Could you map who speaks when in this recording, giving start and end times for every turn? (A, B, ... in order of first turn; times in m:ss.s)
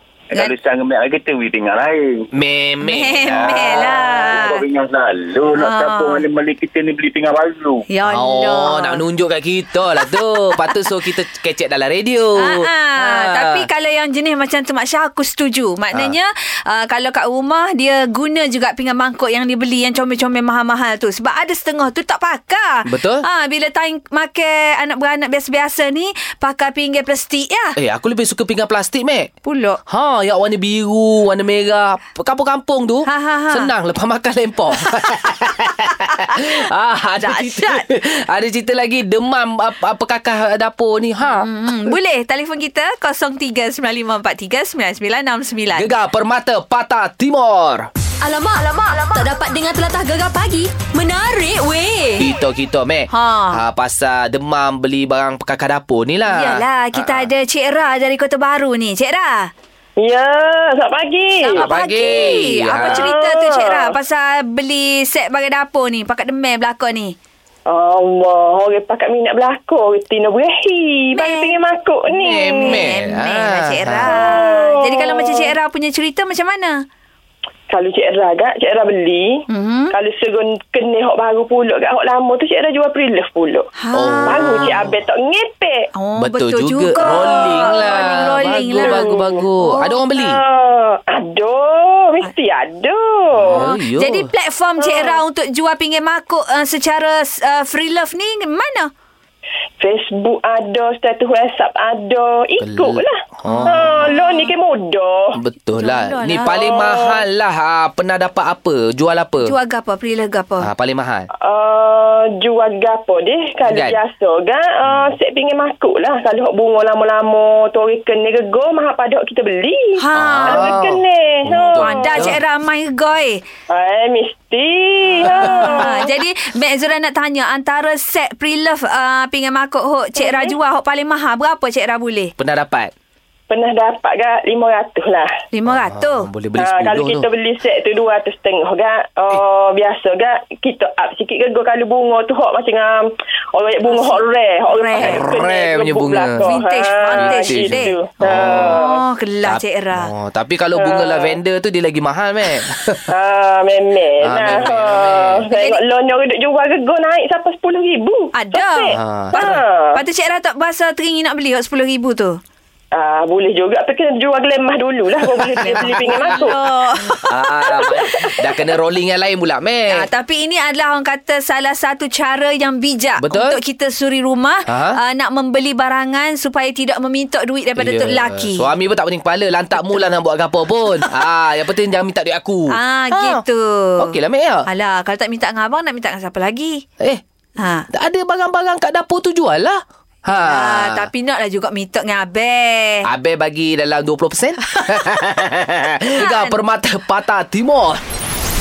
0:00.3-0:02.3 A
0:02.4-0:03.7 B
0:02.8-0:04.6 C
0:03.3-0:07.9 A
0:05.6-0:06.2 C
0:07.9-0:09.0 C
0:08.1-0:13.7 B
0:12.4-0:27.8 C
0:22.9-0:23.2 B
0:27.8-0:29.3 B
0:29.4-0:29.8 C
0:29.9-0:41.9 B
0:33.1-0:33.7 C
0:37.2-0:37.8 C
0:41.3-0:46.0 C
0:45.7-0:47.9 B
0:48.2-0:52.3 D
0:52.2-0:57.3 B
0:53.1-0:53.6 C
0:56.3-0:59.5 C
1:00.0-1:01.7 E
1:01.4-1:07.2 C
1:01.6-1:03.1 B
1:02.8-1:04.0 E
1:07.7-1:12.8 E
1:11.1-1:11.6 C
1:12.1-1:14.1 B
1:12.6-1:16.8 C
1:14.1-1:15.6 E
1:17.7-1:19.4 E
1:19.5-1:19.9 C
1:19.9-1:23.7 E
1:23.8-1:24.7 C
1:24.0-1:25.0 B
1:24.3-1:25.8 E
1:26.0-1:29.0 C
1:26.2-1:30.4 B
1:28.8-1:29.3 E
1:30.1-1:33.6 E
1:33.4-1:34.3 B
1:33.5-1:38.9 C
1:34.8-1:35.2 E
1:39.8-1:43.1 E
1:42.6-1:43.9 B
1:43.5-1:44.5 C
1:43.7-1:45.4 E
1:45.4-1:49.6 B
1:45.8-1:46.5 C
1:46.5-1:47.2 E
1:49.4-1:50.7 C
1:50.6-1:51.3 B
1:51.4-2:02.3 E
1:53.6-1:54.0 B
2:00.0-2:00.7 C
2:00.2-2:02.4 B
2:01.8-2:03.4 C
2:03.7-2:06.1 E
2:05.2-2:05.7 B
2:05.6-2:12.3 C
2:10.2-2:10.6 E
2:12.4-2:12.9 B
2:13.5-2:15.3 E
2:15.5-2:16.3 C
2:15.7-2:17.3 B
2:16.6-2:23.0 E
2:23.5-2:29.0 E
2:23.8-2:25.3 C
2:25.0-2:26.6 B
2:26.4-2:30.1 C
2:27.1-2:28.8 B
2:29.4-2:33.0 B
2:30.8-2:31.4 E
2:33.1-2:40.0 E
2:34.3-2:35.4 B
2:35.5-2:35.8 C
2:38.4-2:42.4 C
2:39.0-2:39.4 B
2:42.9-2:46.6 E
2:45.6-2:47.2 C
2:45.8-2:46.5 B
2:47.1-2:48.2 E
2:47.2-2:50.1 B
2:49.9-2:58.7 C
2:53.2-2:53.6 B
2:54.7-2:55.0 B
2:57.8-3:03.4 B
2:59.8-3:00.1 C
3:02.7-3:04.1 C
3:04.0-3:04.7 B
3:04.7-3:06.8 C
3:07.6-3:07.9 C
3:07.9-3:11.1 B
3:10.3-3:13.1 C
3:13.0-3:18.0 B
3:16.1-3:16.6 C